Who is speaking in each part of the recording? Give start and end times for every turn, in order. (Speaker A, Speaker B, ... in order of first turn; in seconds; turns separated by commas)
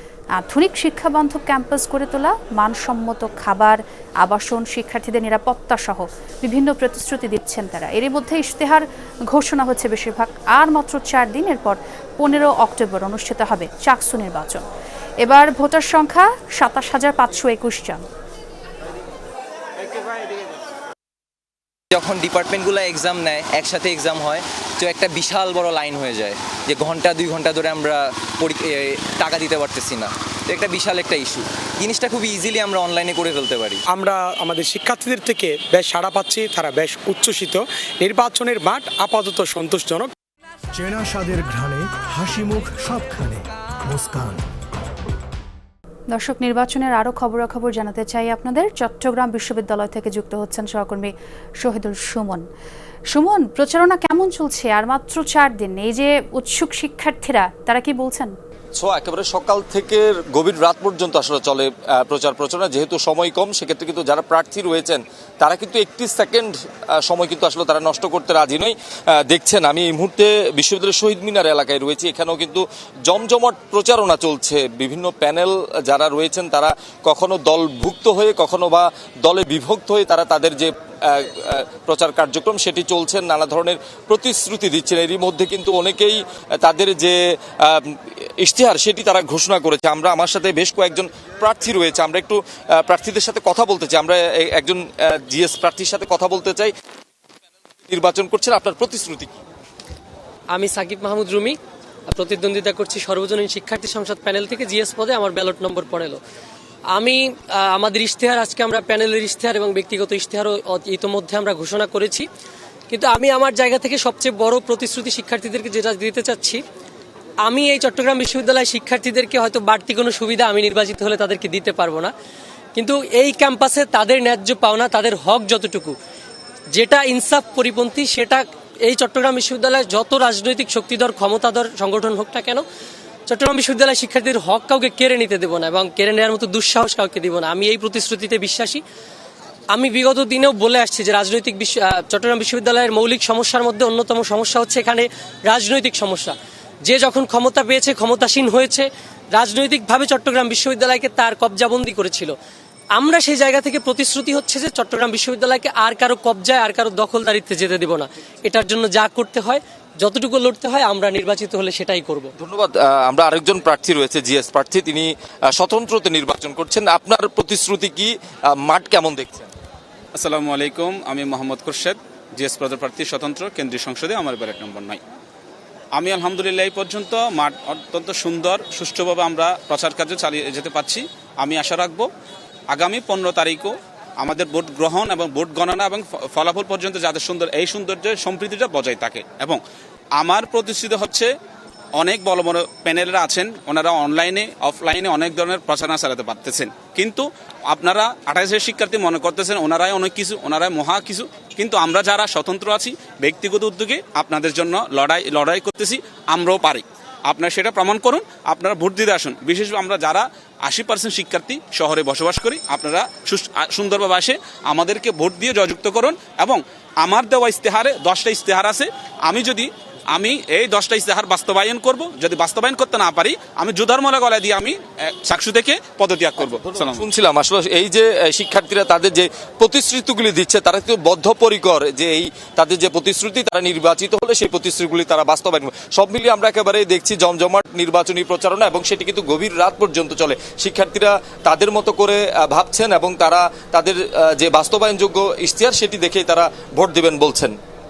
Speaker A: 0.3-14.6, Speaker A: 15.2-18.0, Speaker B: 21.9-33.8, Speaker C: 33.9-40.1, Speaker D: 40.7-44.4, Speaker A: 46.1-52.5, Speaker A: 53.1-58.3, Speaker E: 58.8-96.7, Speaker E: 97.9-99.3, Speaker F: 100.5-101.6, Speaker F: 102.1-106.2, Speaker F: 106.9-112.3, Speaker F: 112.9-116.6, Speaker F: 117.4-122.1, Speaker F: 122.8-125.9, Speaker F: 126.7-132.6, Speaker F: 133.3-138.8, Speaker F: 139.7-152.3, Speaker F: 152.9-162.3, Speaker E: 162.4-169.5, Speaker G: 170.1-175.0, Speaker G: 175.9-182.1, Speaker G: 182.7-189.6, Speaker G: 190.2-191.3, Speaker G: 192.0-227.1, Speaker E: 226.4-247.5